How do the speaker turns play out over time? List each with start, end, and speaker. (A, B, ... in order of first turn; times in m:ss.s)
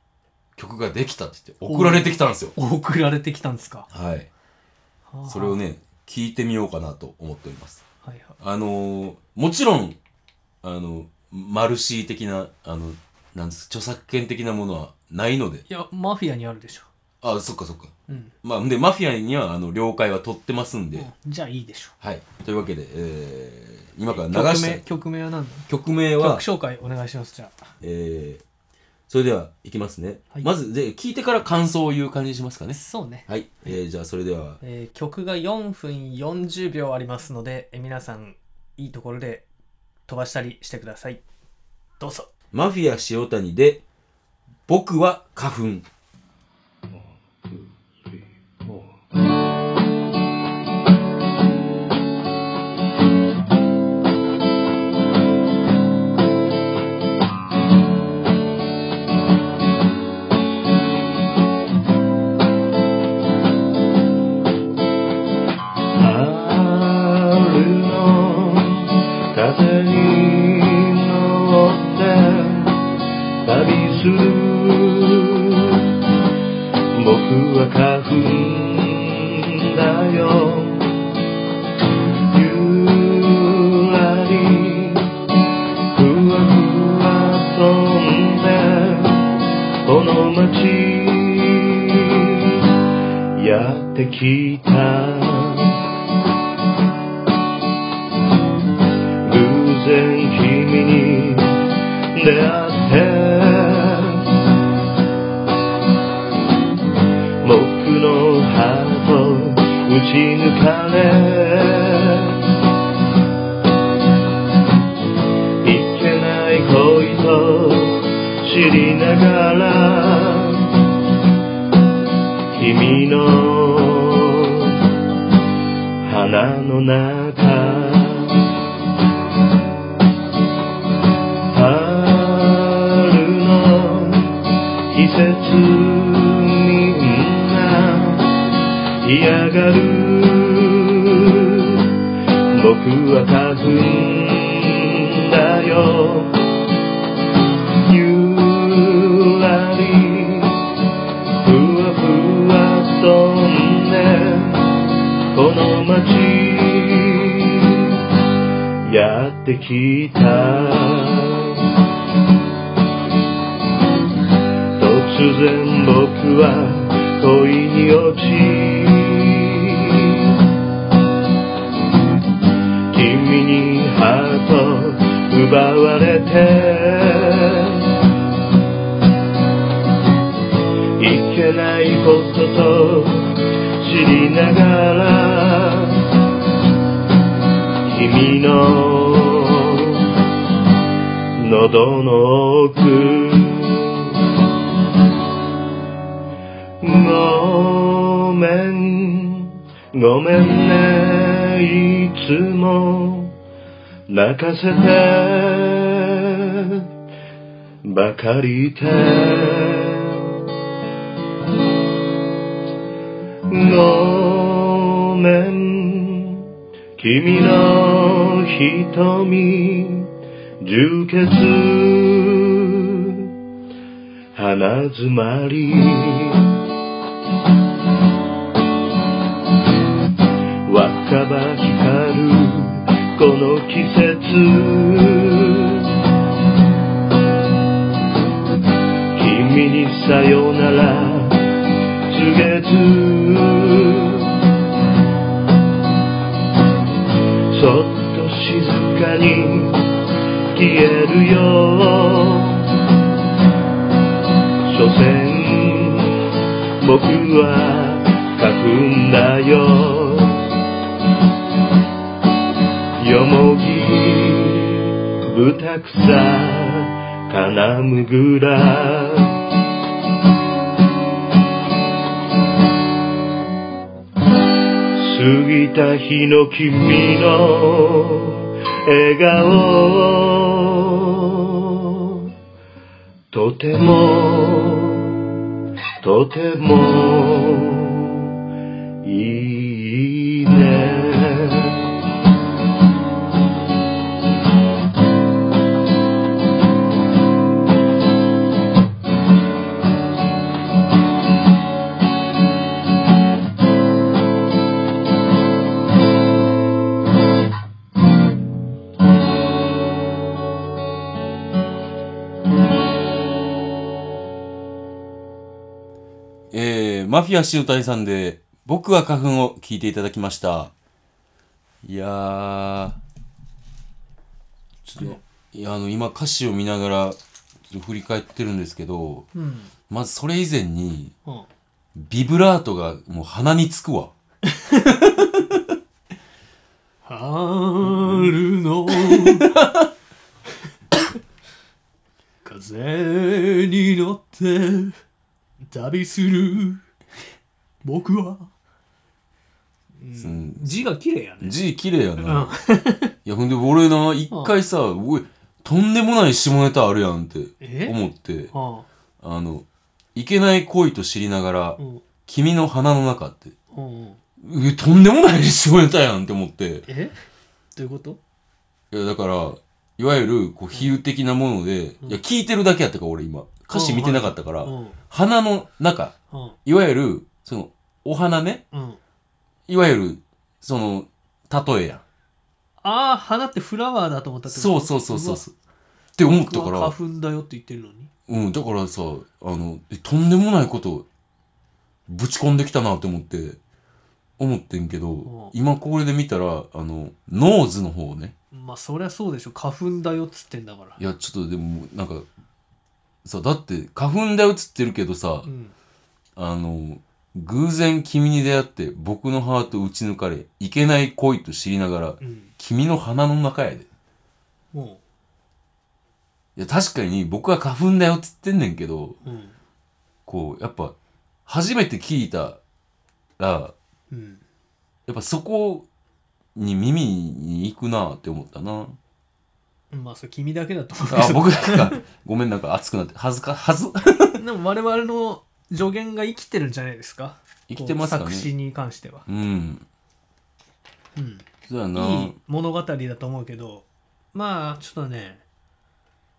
0:00.6-0:02.5 A
0:01.7-0:03.9 B
0:03.9-0:04.3 A
0:05.1-0:05.6 B
0:05.3-0:07.8 A
0:08.0-0:08.4 B
0:08.4-0:10.0 A
0:10.6-0:15.6 A
0:15.7-0:16.9 B
0:17.2-0:21.1 A
0:18.1-0:18.3 B
0:21.0-0:21.9 B
0:22.0-0:24.8 A
0:24.1-0:27.7 B
0:25.7-0:26.4 A
0:27.8-0:28.4 A
0:29.1-0:34.6 A
0:32.7-0:33.3 B
0:34.6-0:39.5 B
0:40.1-0:41.2 B
0:42.0-0:42.3 B
0:42.5-0:43.8 A
0:44.7-0:45.9 A
1:06.0-1:12.9 C
1:13.4-1:15.9 C
1:17.0-1:21.0 C
1:22.3-1:25.2 C
1:25.9-1:29.3 C
1:29.8-1:32.7 C
1:33.4-1:35.8 C
1:39.2-1:41.6 C
1:42.2-1:44.2 C
1:47.4-1:52.4 C
1:55.6-2:00.8 C
2:02.5-2:04.8 C
2:06.0-2:08.5 C
2:11.5-2:18.4 C
2:19.0-2:21.9 C
2:22.5-2:26.4 C
2:27.8-2:30.7 C
2:31.4-2:34.7 C
2:35.3-2:38.0 C
2:38.9-2:41.7 C
2:44.8-2:50.4 C
2:52.9-2:57.9 C
3:01.0-3:06.1 C
3:07.9-3:10.1 C
3:11.4-3:14.2 C
3:16.8-3:23.4 C
3:24.1-3:26.9 C
3:27.8-3:30.4 C
3:33.5-3:43.3 C
3:44.4-3:46.6 C
3:50.7-3:55.9 C
3:59.2-4:01.4 C
4:02.1-4:04.4 C
4:07.5-4:09.9 C
4:10.5-4:12.8 C
4:14.7-4:16.3 C
4:16.8-4:20.5 C
4:23.0-4:29.4 C
4:35.0-4:42.3 C
4:43.3-4:45.3 C
4:46.0-4:48.4 C
4:49.0-4:51.9 C
5:16.5-5:20.7 A
5:21.8-5:23.0 A
5:24.8-5:27.2 A
5:25.0-5:25.2 B
5:27.7-5:29.3 A
5:29.3-5:29.7 B
5:29.9-5:31.1 A
5:32.0-5:34.1 A
5:34.6-5:35.0 B
5:35.1-5:35.6 A
5:37.0-5:39.5 B
5:37.8-5:38.4 A
5:38.9-5:39.9 A
5:42.4-5:45.0 B
5:45.6-5:46.8 B
5:47.8-5:48.5 B
5:50.0-5:51.6 B
5:50.2-5:50.9 A
5:51.4-5:52.5 A
5:52.2-5:53.1 B
5:53.2-5:58.5 A
5:54.3-5:54.6 B
5:57.6-5:58.0 B
5:58.5-5:58.9 B
5:59.2-6:03.6 A
6:01.8-6:02.0 B
6:03.7-6:04.2 B
6:04.4-6:06.9 A
6:06.9-6:07.2 B
6:07.8-6:08.2 B
6:08.9-6:16.1 A
6:10.7-6:11.0 B
6:13.7-6:15.0 B
6:16.3-6:16.6 B
6:16.6-6:18.6 A
6:18.7-6:19.0 B
6:19.7-6:22.0 A
6:22.8-6:25.4 B
6:24.5-6:25.5 A
6:26.2-6:27.0 A
6:26.2-6:28.1 B
6:28.3-6:31.1 A
6:32.1-6:33.6 A
6:34.4-6:38.3 A
6:35.2-6:35.5 B
6:38.5-6:41.0 B
6:41.0-6:42.3 A
6:43.2-6:45.5 A
6:45.4-6:45.8 B
6:46.4-6:53.9 A
6:52.2-6:52.5 B
6:54.7-6:55.0 B
6:56.6-6:59.2 A
6:59.2-6:59.6 B
7:00.3-7:01.0 A
7:01.5-7:02.6 A
7:03.4-7:03.7 A
7:04.1-7:04.4 B
7:05.1-7:05.9 A
7:06.6-7:09.0 A
7:09.9-7:12.0 B
7:11.1-7:14.4 A
7:14.3-7:19.3 B
7:17.7-7:18.5 A
7:19.3-7:19.9 A
7:21.2-7:25.4 B
7:21.7-7:22.4 A